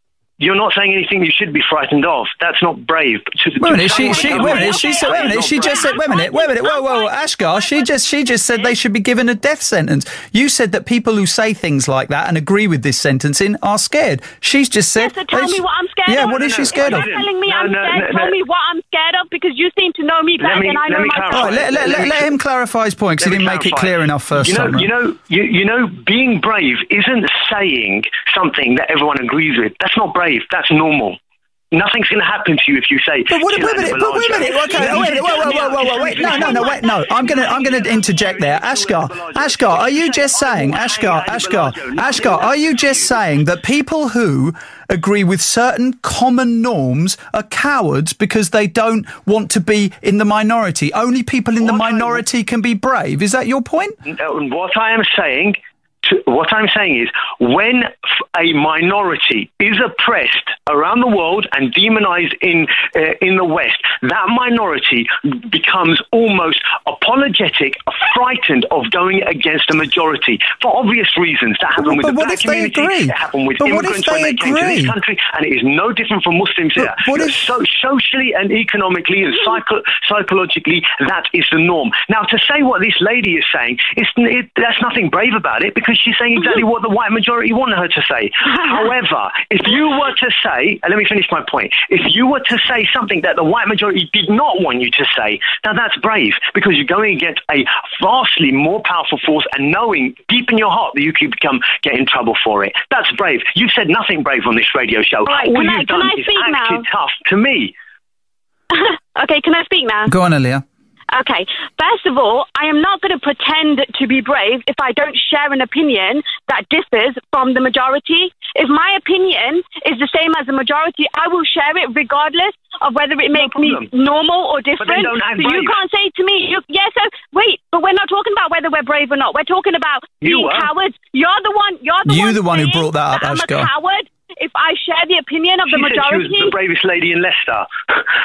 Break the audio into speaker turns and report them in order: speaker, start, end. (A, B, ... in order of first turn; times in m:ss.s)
0:00.4-0:06.0 A
0:03.6-0:17.1 B
0:03.7-0:08.7 C
0:15.0-0:22.0 C
0:16.1-0:18.4 A
0:20.4-0:22.3 A
0:21.3-0:24.9 B
0:23.2-0:31.2 A
0:31.7-0:43.2 A
0:33.3-0:54.0 B
0:36.1-0:37.3 C
0:51.6-0:52.2 A
0:54.0-1:47.7 A
1:11.8-1:14.9 B
1:16.8-1:17.4 B
1:45.2-1:46.8 C
1:48.7-1:50.1 C
1:50.1-1:50.6 B
1:51.1-2:16.5 C
2:03.3-2:03.9 A
2:04.8-2:05.8 A
2:10.2-2:10.7 A
2:12.0-2:13.7 B
2:15.7-2:17.7 A